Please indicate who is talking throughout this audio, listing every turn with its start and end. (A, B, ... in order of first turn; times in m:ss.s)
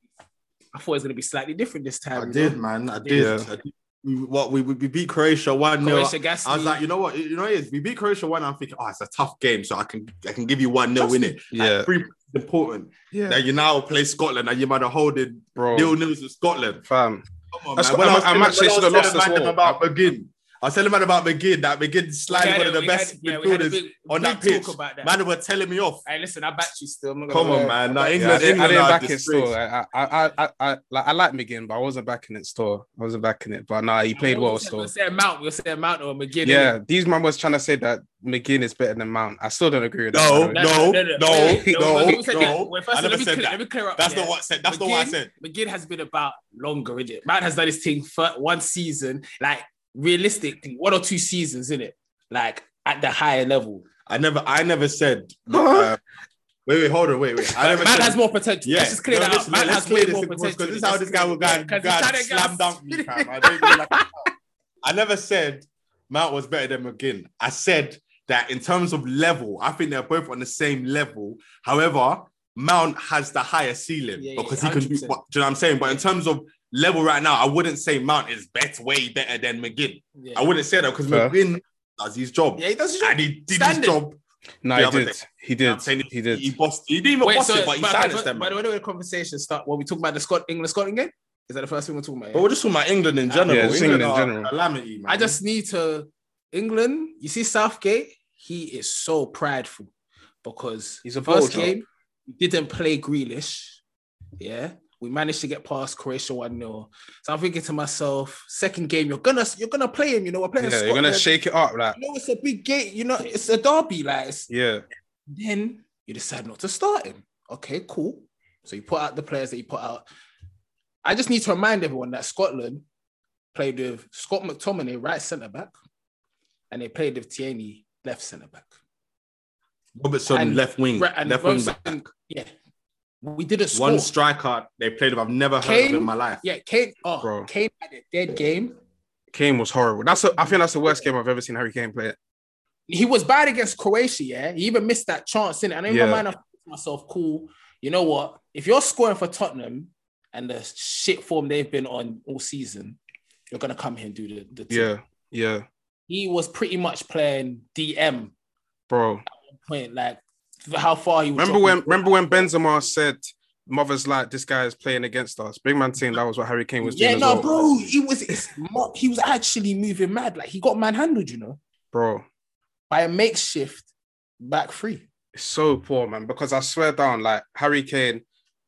0:00.7-0:03.4 A
0:02.2-0:16.8 B
0:03.1-0:03.5 C
0:05.8-0:06.8 A
0:11.0-0:11.3 A
0:11.5-0:11.9 C
0:13.1-0:13.4 C
0:15.6-0:16.0 C
0:16.9-0:17.2 C
0:17.5-0:26.0 B
0:17.8-0:19.8 C
0:22.3-0:25.2 A
0:26.1-0:29.0 A
0:27.3-0:29.5 B
0:28.2-0:34.9 C
0:34.2-0:36.8 A
0:36.4-0:40.6 C
0:40.1-0:45.3 B
0:40.5-0:53.8 A
0:41.3-0:42.5 C
0:54.1-0:56.0 B
0:55.5-0:55.9 C
0:56.7-1:04.3 B
0:57.6-1:04.1 A
1:04.8-1:24.2 B
1:14.2-1:15.2 A
1:20.2-1:20.5 A
1:21.1-1:21.3 C
1:22.6-1:24.0 A
1:24.6-1:26.5 C
1:24.7-1:28.6 B
1:27.2-1:32.5 A
1:32.3-1:35.4 B
1:33.3-1:34.0 A
1:33.5-1:34.5 C
1:35.1-1:39.9 A
1:40.4-1:43.8 A
1:41.0-1:41.7 C
1:44.4-1:51.3 A
1:50.6-1:52.0 C
1:52.0-1:54.5 A
1:54.5-1:54.8 C
1:55.3-2:00.0 A
2:01.0-2:02.8 A
2:03.5-2:05.7 A
2:06.7-2:08.7 A
2:10.0-2:12.0 B
2:10.3-2:12.5 A
2:13.2-2:14.1 A
2:13.7-2:16.4 B
2:15.6-2:18.8 A
2:17.2-2:17.5 C
2:19.3-2:22.2 C
2:22.9-2:33.0 A
2:25.9-2:26.2 C
2:33.5-2:34.9 A
2:34.7-2:35.7 C
2:36.1-2:38.3 A
2:38.9-2:39.2 C
2:39.5-2:42.5 A
2:41.4-2:47.8 C
2:46.8-2:51.6 A
2:51.9-2:52.3 C
2:52.9-2:53.9 A
2:54.4-2:55.0 A
2:55.4-2:58.2 C